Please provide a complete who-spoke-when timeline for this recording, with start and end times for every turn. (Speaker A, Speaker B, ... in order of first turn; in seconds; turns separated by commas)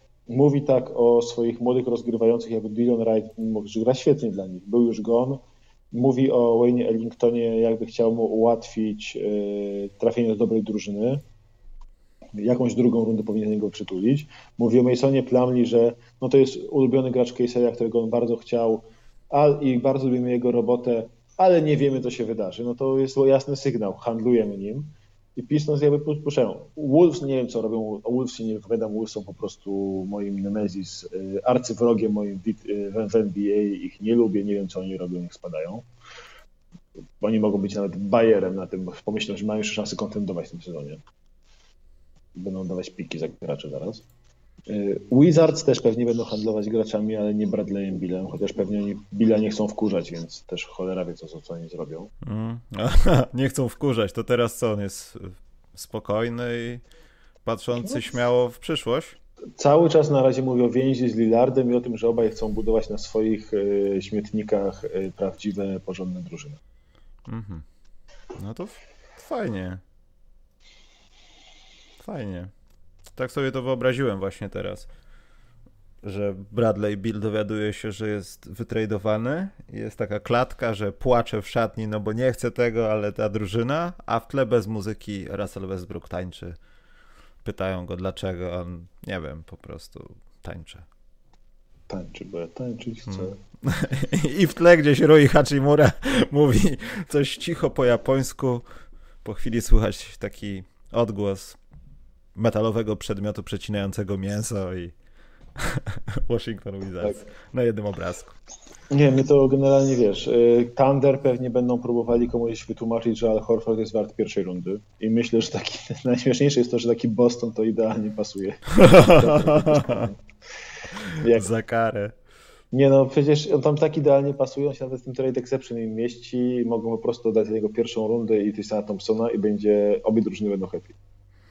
Speaker A: 0.3-5.4, Speaker A: 5.9-11.2, Speaker A: 12.3-35.9, Speaker A: 37.2-41.0, Speaker A: 42.4-44.0, Speaker A: 44.7-52.1, Speaker B: 52.2-56.8, Speaker B: 57.5-59.2, Speaker A: 59.6-66.6, Speaker B: 67.3-67.7, Speaker B: 68.4-69.8, Speaker B: 72.0-72.5, Speaker B: 73.2-74.9, Speaker B: 76.0-86.6, Speaker B: 87.4-90.9, Speaker A: 91.9-93.4, Speaker B: 93.1-98.7, Speaker B: 99.2-101.6, Speaker B: 102.3-105.0, Speaker B: 105.6-108.4, Speaker A: 108.9-120.2, Speaker B: 118.8-120.1, Speaker B: 121.1-122.2, Speaker A: 121.2-121.5, Speaker A: 122.7-131.0